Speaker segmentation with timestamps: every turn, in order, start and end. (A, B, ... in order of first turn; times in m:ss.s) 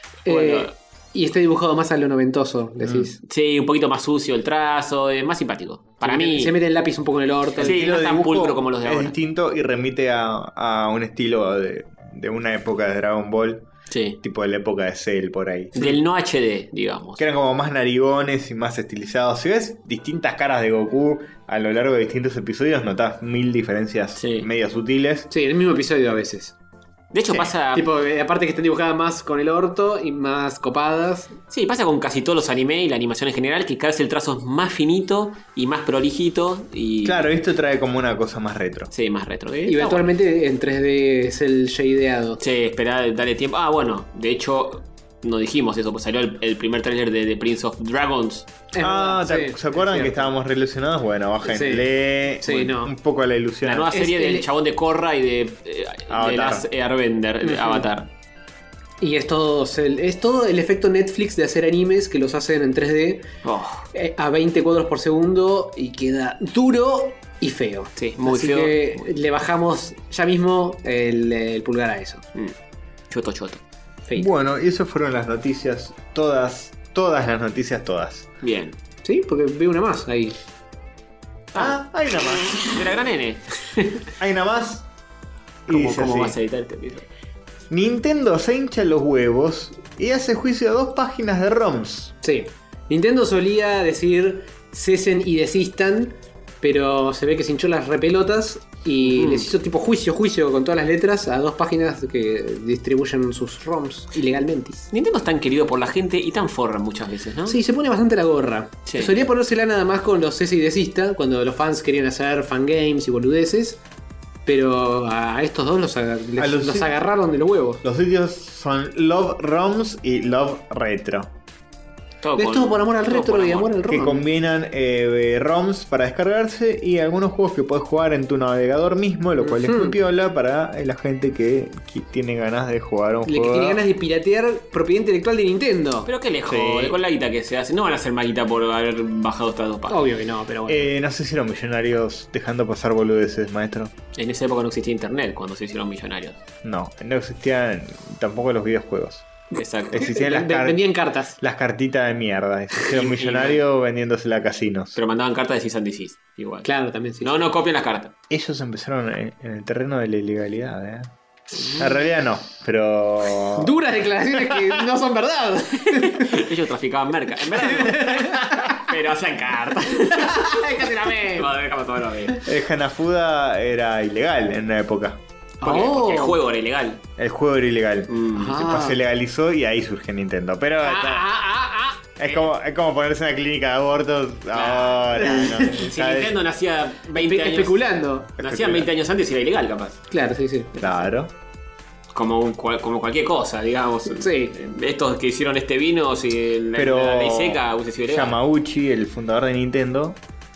0:00.3-0:03.2 A
0:00.3-0:00.7 B
0:02.9-0:06.6 B
0:06.0-0:07.8 A
0:07.6-0:13.7 C
0:07.6-0:09.2 B
0:13.9-0:14.2 B
0:14.2-0:16.0 C
0:15.8-0:17.2 B
0:17.2-0:25.3 C
0:24.2-0:24.5 B
0:25.3-0:26.6 A
0:27.1-0:27.9 B
0:27.7-0:31.4 A
0:31.5-0:37.2 B
0:37.0-0:38.9 C
0:38.9-0:40.1 B
0:39.7-0:42.4 A
0:42.4-0:48.5 B
0:48.7-0:50.3 A
0:48.8-0:53.9 C
0:51.4-0:51.9 A
0:52.4-0:52.9 A
0:53.6-0:58.1 B
0:53.9-0:54.5 A
0:56.1-0:56.7 C
0:57.4-0:57.9 A
0:59.0-1:03.3 A
1:03.4-1:03.9 B
1:03.9-1:12.2 A
1:08.0-1:09.1 B
1:13.1-1:13.6 B
1:14.2-1:18.3 C
1:18.4-1:18.8 B
1:19.0-1:20.4 A
1:21.5-1:24.0 B
1:21.6-1:22.6 C
1:24.2-1:24.9 C
1:25.7-1:26.4 C
1:25.7-1:27.1 B
1:27.7-1:32.1 C
1:32.2-1:44.9 A
1:39.0-1:39.5 B
1:44.9-1:47.6 B
1:47.5-1:53.8 A
1:48.9-1:49.1 B
1:54.5-1:57.8 A
1:56.4-1:56.9 C
1:57.8-2:01.3 C
2:02.2-2:03.7 B
2:02.4-2:04.2 A
2:03.9-2:13.8 C
2:09.4-2:10.0 A
2:13.3-2:16.1 A
2:16.1-2:20.0 B
2:16.5-2:17.0 C
2:19.9-2:20.9 A
2:20.7-2:23.9 C
2:24.2-2:26.4 B
2:26.6-2:29.3 C
2:29.5-2:30.1 B
2:29.9-2:30.8 C
2:30.0-2:31.4 A
2:31.4-2:35.0 C
2:32.8-2:33.6 B
2:35.0-2:36.7 B
2:36.6-2:37.4 A
2:37.2-2:38.1 B
2:38.3-2:41.1 C
2:41.6-2:41.9 A
2:41.7-2:43.8 C
2:43.6-2:46.4 A
2:45.9-2:52.4 B
2:47.6-2:48.8 A
2:50.1-2:51.5 A
2:52.4-2:55.2 C
2:55.6-2:56.4 A
2:55.6-2:57.0 B
2:57.2-3:01.3 C
2:58.1-2:58.6 B
2:58.4-2:59.0 A
3:00.8-3:02.0 A
3:02.2-3:06.4 C
3:04.5-3:07.8 B
3:05.2-3:05.9 A
3:07.1-3:08.3 A
3:08.4-3:08.9 C
3:08.4-3:10.0 B
3:10.1-3:10.7 A
3:10.8-3:11.3 C
3:12.1-3:18.4 B
3:14.2-3:14.5 A
3:16.8-3:20.2 C